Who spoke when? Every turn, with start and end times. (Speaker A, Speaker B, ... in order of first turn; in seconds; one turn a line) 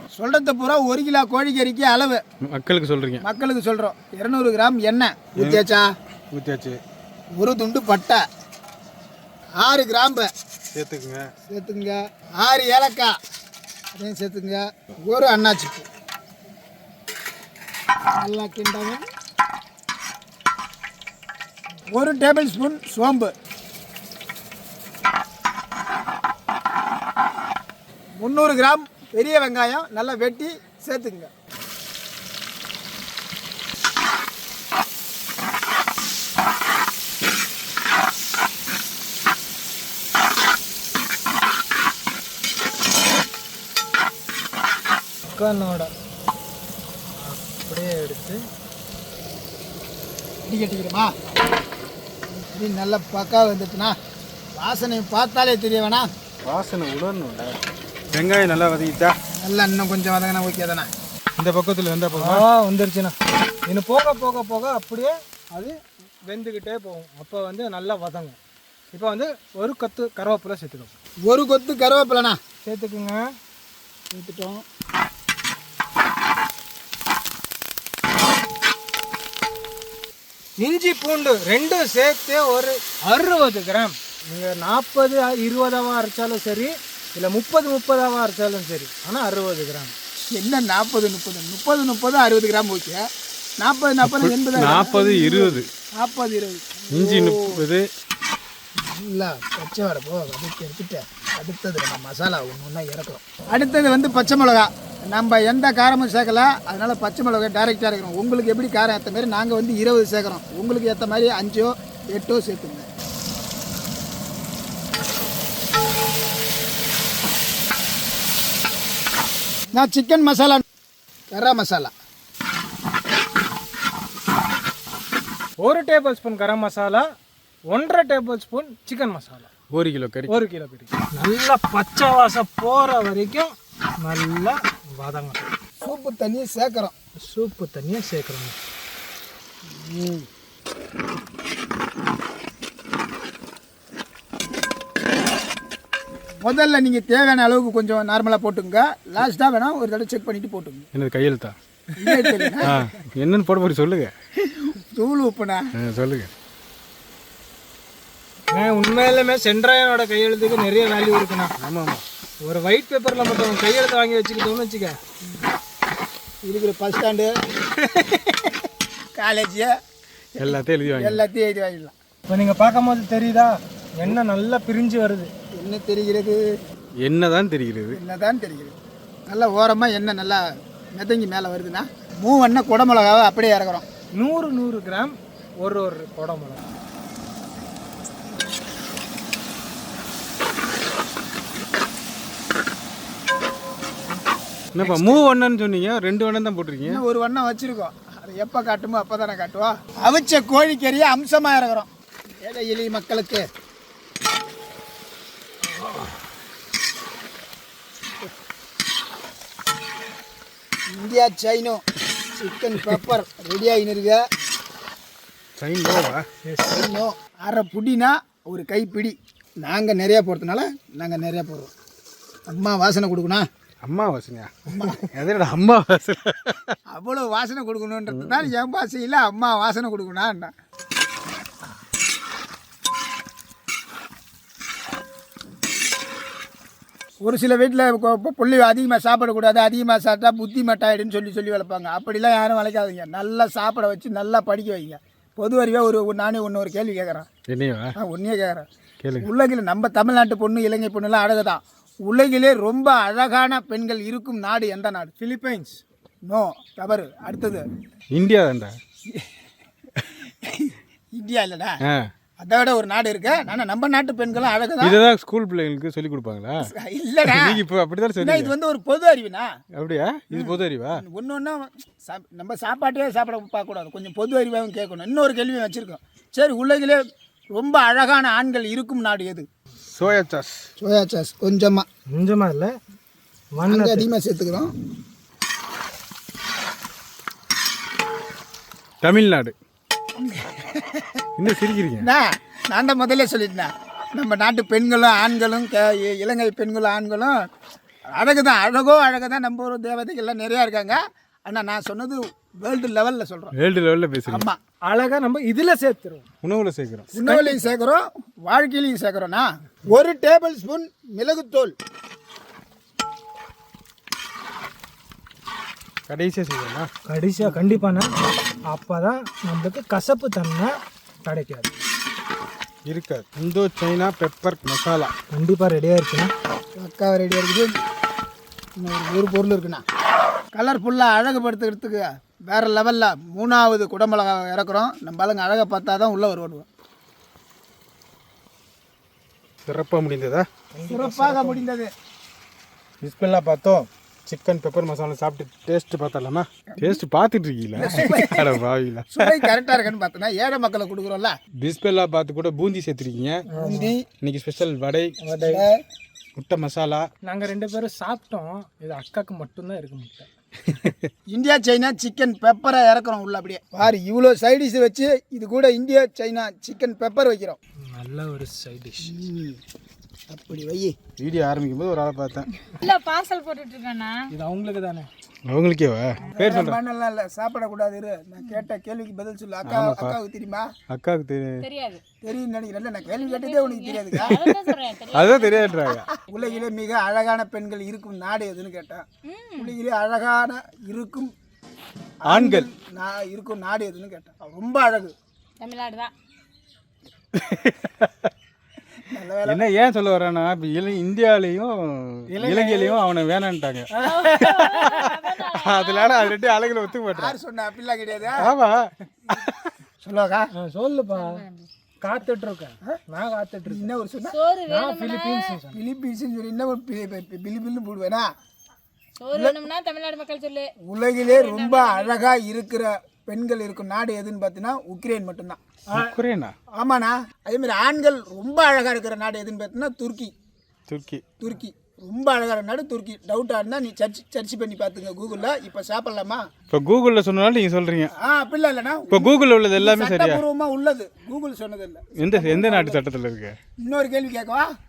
Speaker A: 0.1-2.2
Speaker B: 2.4-3.2
Speaker A: 3.2-5.9
Speaker B: 6.3-6.8
Speaker A: 7.4-8.2
Speaker A: 9.6-10.3
Speaker B: 10.7-11.2
Speaker A: 11.5-13.1
Speaker A: 13.9-15.8
Speaker A: 18.1-19.0
Speaker A: 21.9-23.3
Speaker A: 28.2-31.3
Speaker C: 45.2-45.9
Speaker C: 47.2-48.4
Speaker A: 50.4-51.1
Speaker A: 52.5-54.0
Speaker A: 54.5-56.0
Speaker B: 56.4-57.5
Speaker B: 58.1-59.1
Speaker A: 59.3-60.9
Speaker B: 61.4-62.4
Speaker C: 62.1-63.1
Speaker C: 63.7-65.7
Speaker C: 66.3-68.3
Speaker C: 68.9-70.9
Speaker A: 71.2-72.4
Speaker C: 72.6-73.2
Speaker A: 74.1-74.6
Speaker C: 80.6-90.0
Speaker A: 90.3-93.1
Speaker A: 93.6-97.2
Speaker B: 94.0-95.7
Speaker B: 96.9-97.8
Speaker C: 96.9-97.3
Speaker A: 98.8-112.8
Speaker A: 119.7-120.6
Speaker A: 121.3-121.9
Speaker C: 125.6-127.0
Speaker C: 127.7-129.5
Speaker B: 129.7-130.4
Speaker C: 130.3-135.4
Speaker A: 135.8-136.9
Speaker C: 137.2-138.6
Speaker A: 139.7-140.3
Speaker A: 146.4-150.8
Speaker B: 150.9-151.5
Speaker A: 152.0-152.8
Speaker C: 152.1-152.6
Speaker B: 152.6-154.1
Speaker A: 154.5-155.6
Speaker B: 155.8-156.3
Speaker C: 158.5-161.5
Speaker B: 161.6-162.0
Speaker C: 162.4-165.0
Speaker A: 166.4-167.3
Speaker A: 169.2-169.7
Speaker B: 170.4-171.2
Speaker A: 170.4-171.9
Speaker C: 172.3-175.3
Speaker A: 175.5-176.4
Speaker B: 177.0-178.0
Speaker A: 177.9-178.7
Speaker A: 179.3-183.8
Speaker C: 184.2-186.7
Speaker B: 194.7-197.0
Speaker A: 194.8-195.2
Speaker A: 196.8-201.9
Speaker A: 202.4-203.4
Speaker A: 210.9-211.8
Speaker A: 212.3-214.2
Speaker B: 215.6-216.2
Speaker C: 216.4-216.8
Speaker A: 216.7-221.7
Speaker A: 222.5-223.4
Speaker B: 223.8-226.7
Speaker A: 224.7-225.1
Speaker A: 226.9-230.5
Speaker A: 237.2-247.3
Speaker B: 247.5-247.9
Speaker A: 248.0-248.7
Speaker B: 249.0-249.3
Speaker A: 249.2-255.1
Speaker C: 255.2-255.8
Speaker A: 256.2-257.6
Speaker B: 258.1-258.8
Speaker A: 260.4-261.8
Speaker B: 261.8-262.1
Speaker A: 262.4-265.0
Speaker B: 264.8-266.7
Speaker A: 266.6-267.6
Speaker B: 267.2-268.5
Speaker A: 268.2-269.5
Speaker B: 269.7-271.0
Speaker A: 270.3-277.0
Speaker A: 277.5-279.5
Speaker B: 279.9-280.7
Speaker A: 280.8-281.9
Speaker C: 282.1-282.7
Speaker C: 283.5-284.1
Speaker A: 283.6-284.7
Speaker B: 289.0-289.5
Speaker A: 290.2-291.1
Speaker B: 291.4-292.1
Speaker A: 292.0-297.4
Speaker A: 298.1-303.5
Speaker B: 303.5-304.5
Speaker A: 304.2-304.6
Speaker C: 304.9-306.2
Speaker B: 306.4-307.1
Speaker A: 307.1-311.7
Speaker C: 307.2-307.6
Speaker B: 316.1-316.9
Speaker C: 317.1-318.1
Speaker C: 318.7-320.7
Speaker C: 321.2-321.7
Speaker B: 322.9-325.1
Speaker C: 325.3-326.3
Speaker A: 326.8-327.7
Speaker A: 328.8-329.8
Speaker A: 330.5-336.6
Speaker B: 339.6-340.4
Speaker C: 340.7-341.6
Speaker A: 340.9-341.9
Speaker B: 343.0-349.5
Speaker A: 346.7-347.0
Speaker A: 347.7-351.3
Speaker B: 351.6-353.4
Speaker C: 353.5-353.9
Speaker A: 353.5-354.0
Speaker B: 354.2-355.1
Speaker C: 355.2-355.6
Speaker A: 355.4-355.8
Speaker B: 356.4-357.1
Speaker C: 357.2-360.3
Speaker B: 360.8-361.1
Speaker A: 361.3-367.6
Speaker C: 367.8-369.1
Speaker A: 369.0-369.6
Speaker A: 370.3-370.9
Speaker B: 371.2-372.5
Speaker D: 372.8-374.2
Speaker C: 374.3-375.1
Speaker B: 375.5-376.8
Speaker A: 376.3-380.7
Speaker B: 379.6-380.2
Speaker B: 380.9-381.6
Speaker D: 381.6-382.0
Speaker A: 382.2-384.4
Speaker D: 383.1-386.5
Speaker B: 384.2-386.1
Speaker A: 386.3-389.0
Speaker D: 389.2-389.8
Speaker A: 389.6-391.3
Speaker A: 392.2-395.1
Speaker B: 392.3-392.7
Speaker D: 395.6-396.1
Speaker B: 397.3-398.3
Speaker A: 399.0-399.6
Speaker B: 399.4-403.9
Speaker C: 402.3-403.0
Speaker C: 403.9-404.9
Speaker D: 404.0-406.5
Speaker B: 404.9-407.3
Speaker A: 407.1-408.4
Speaker B: 408.4-409.7
Speaker A: 410.0-410.5
Speaker C: 410.6-411.4
Speaker D: 411.1-411.7
Speaker C: 412.0-413.9
Speaker A: 413.6-414.4
Speaker D: 414.3-415.6
Speaker C: 414.7-415.8
Speaker A: 415.7-418.3
Speaker D: 419.2-422.3
Speaker A: 420.9-425.6
Speaker C: 425.9-426.1
Speaker B: 425.9-426.5
Speaker A: 426.7-430.3
Speaker B: 430.9-431.2
Speaker A: 431.4-436.4
Speaker B: 436.7-438.1
Speaker A: 438.1-443.0
Speaker B: 439.1-440.4
Speaker B: 442.2-443.6
Speaker A: 443.8-444.7